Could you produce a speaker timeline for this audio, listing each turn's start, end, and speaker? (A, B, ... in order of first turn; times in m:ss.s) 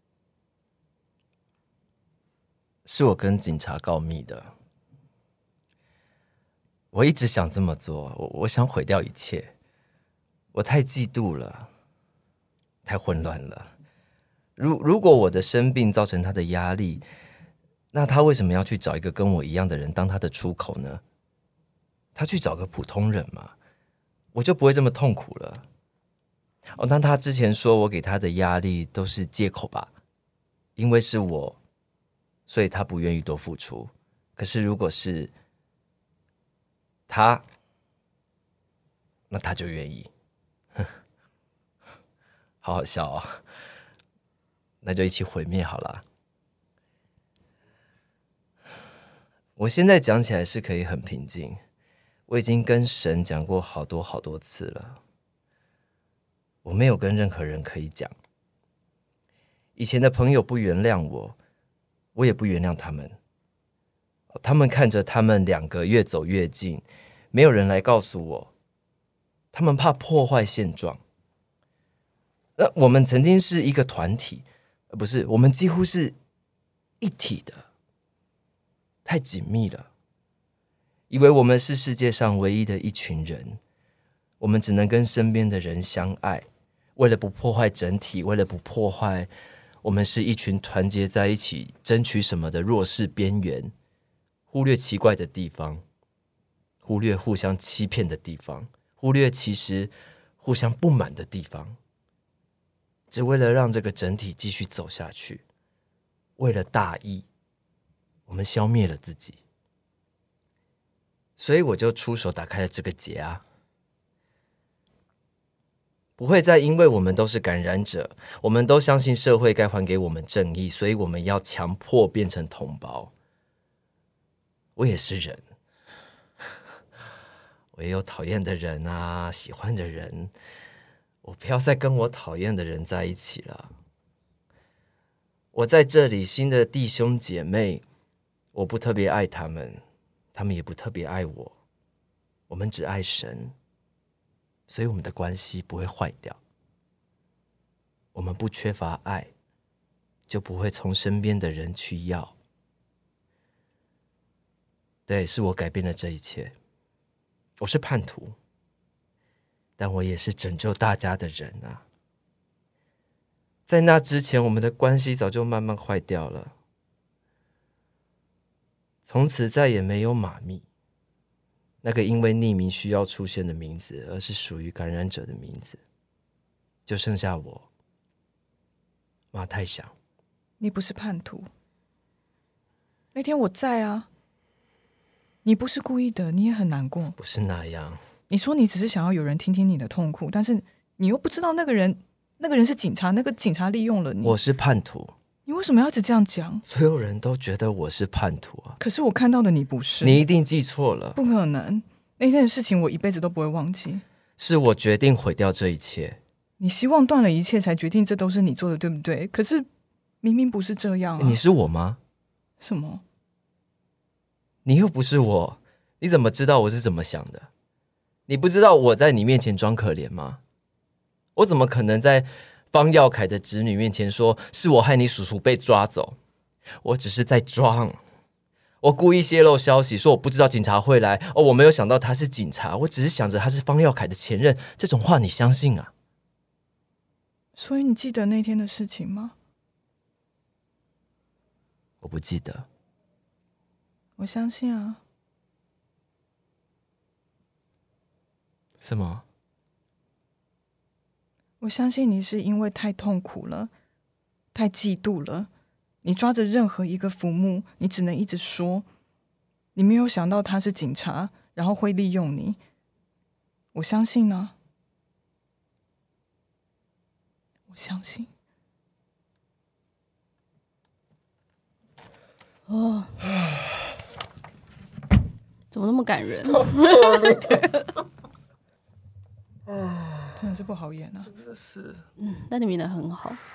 0:02.8-0:04.5 A
0:06.9-0:09.5 A
0:10.5-0:11.7 A
0:12.8-0:13.7 A
0:14.6-0:17.0 A
0:17.9-0:21.0 A
0:22.1-0:23.5 A
0:24.3-0:25.6 A
0:26.7-0:29.9 A
0:30.8-0:31.6 A
0:32.5-0:35.3 A
0:37.1-0:37.4 A
0:39.3-0:40.1 A
0:42.6-0:43.4 A
0:44.8-0:46.0 A
0:49.6-0:51.6 A
0:52.3-0:55.0 A
0:56.6-0:58.1 A
0:59.8-1:01.4 A
1:02.1-1:03.1 A
1:04.3-1:08.5 A
1:09.5-1:11.0 A
1:12.6-1:16.2 A
1:17.0-1:17.6 A
1:19.0-1:19.9 A
1:21.1-1:23.6 A
1:24.4-1:29.3 A
1:29.8-1:33.7 A
1:34.5-1:35.8 A
1:36.8-1:41.8 A
1:43.1-1:45.4 A
1:46.4-1:47.2 A
1:48.3-1:49.4 A
1:51.4-1:53.4 A
1:56.2-2:03.1 A
2:04.8-2:05.4 A
2:07.7-2:10.3 A
2:11.2-2:13.7 A
2:15.5-2:17.8 A
2:18.5-2:19.8 A
2:20.3-2:21.5 A
2:22.5-2:23.5 A
2:24.7-2:26.4 A
2:28.1-2:29.3 A
2:30.3-2:32.3 A
2:35.1-2:36.5 A
2:37.6-2:38.3 A
2:39.8-2:41.8 A
2:43.7-2:46.5 A
2:49.0-2:50.6 A
2:51.8-2:55.8 A
2:56.9-2:57.6 A
2:59.3-2:59.9 A
3:00.6-3:01.5 B
3:03.1-3:04.1 B
3:05.4-3:07.2 B
3:07.2-3:08.0 A
3:08.3-3:14.4 B
3:14.2-3:15.1 A
3:15.4-3:16.6 B
3:16.7-3:18.8 A
3:18.8-3:20.2 B
3:20.0-3:21.2 A
3:21.2-3:24.0 B
3:24.4-3:26.2 A
3:26.6-3:29.6 B
3:30.2-3:31.4 B
3:31.2-3:32.0 A
3:32.6-3:33.0 B
3:34.6-3:37.5 A
3:38.3-3:40.4 A
3:41.4-3:46.2 A
3:46.8-3:48.0 A
3:48.8-3:55.9 A
3:57.6-3:59.3 B
4:02.0-4:02.6 A
4:04.2-4:05.0 B
4:08.8-4:09.2 A
4:11.6-4:13.7 B
4:14.5-4:15.5 B
4:16.0-4:18.8 B
4:19.7-4:22.6 B
4:23.7-4:24.5 B
4:27.7-4:28.3 B
4:32.7-4:33.2 C
4:35.7-4:37.8 C
4:36.5-4:37.6 A
4:39.7-4:40.3 A
4:40.4-4:41.3 B
4:41.4-4:42.0 A
4:42.2-4:43.4 C